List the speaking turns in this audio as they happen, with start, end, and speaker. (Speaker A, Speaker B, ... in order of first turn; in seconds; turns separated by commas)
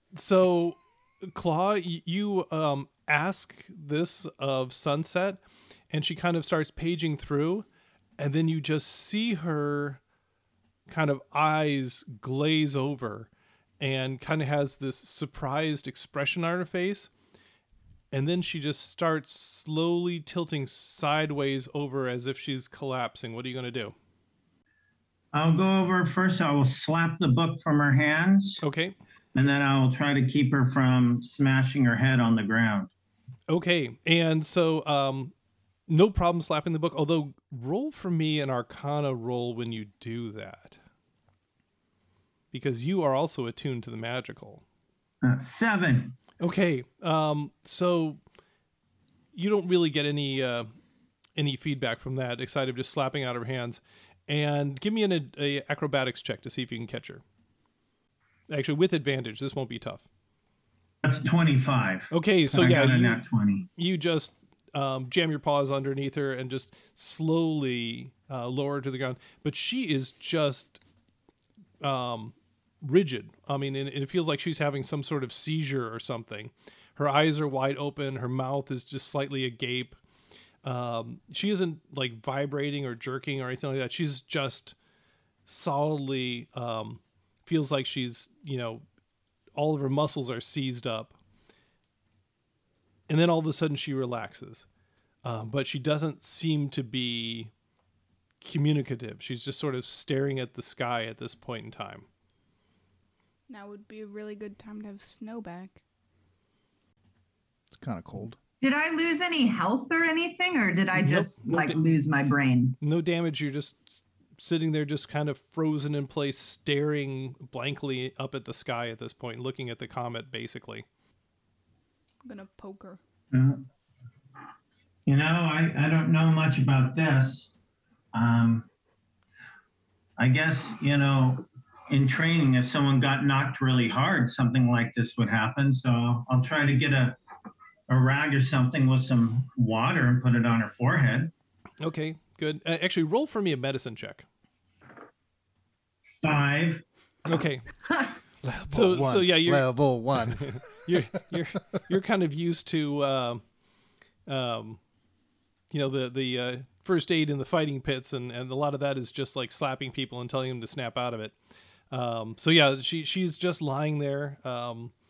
Speaker A: 0.1-5.4, Speaker A: 5.9-7.7, Speaker A: 8.2-10.0, Speaker A: 10.9-17.1, Speaker A: 18.1-23.9, Speaker B: 25.3-28.6, Speaker A: 28.6-29.0, Speaker B: 29.4-32.9, Speaker A: 33.5-35.3, Speaker A: 35.9-40.8, Speaker A: 42.5-44.6, Speaker B: 45.2-46.2, Speaker A: 46.4-48.2, Speaker A: 49.3-50.7, Speaker A: 51.4-57.2, Speaker A: 58.5-60.1, Speaker B: 61.0-63.7, Speaker A: 62.1-63.2, Speaker A: 63.8-70.8, Speaker A: 71.8-80.0, Speaker A: 80.6-84.8, Speaker A: 85.5-88.8, Speaker A: 89.6-91.1, Speaker A: 93.1-94.7, Speaker A: 95.2-97.5, Speaker A: 98.4-102.1, Speaker C: 103.5-105.8, Speaker D: 107.7-108.4, Speaker E: 108.6-112.8, Speaker A: 111.0-111.8, Speaker A: 112.8-120.9, Speaker C: 122.2-123.0, Speaker B: 123.3-123.7, Speaker B: 125.1-127.5, Speaker B: 128.1-128.7, Speaker B: 130.2-137.2, Speaker B: 137.9-141.3, Speaker A: 141.8-144.3, Speaker B: 146.2-146.8, Speaker A: 147.3-147.7, Speaker D: 148.4-151.2, Speaker A: 148.7-153.4, Speaker A: 154.3-154.8, Speaker A: 155.7-161.4, Speaker A: 161.9-164.9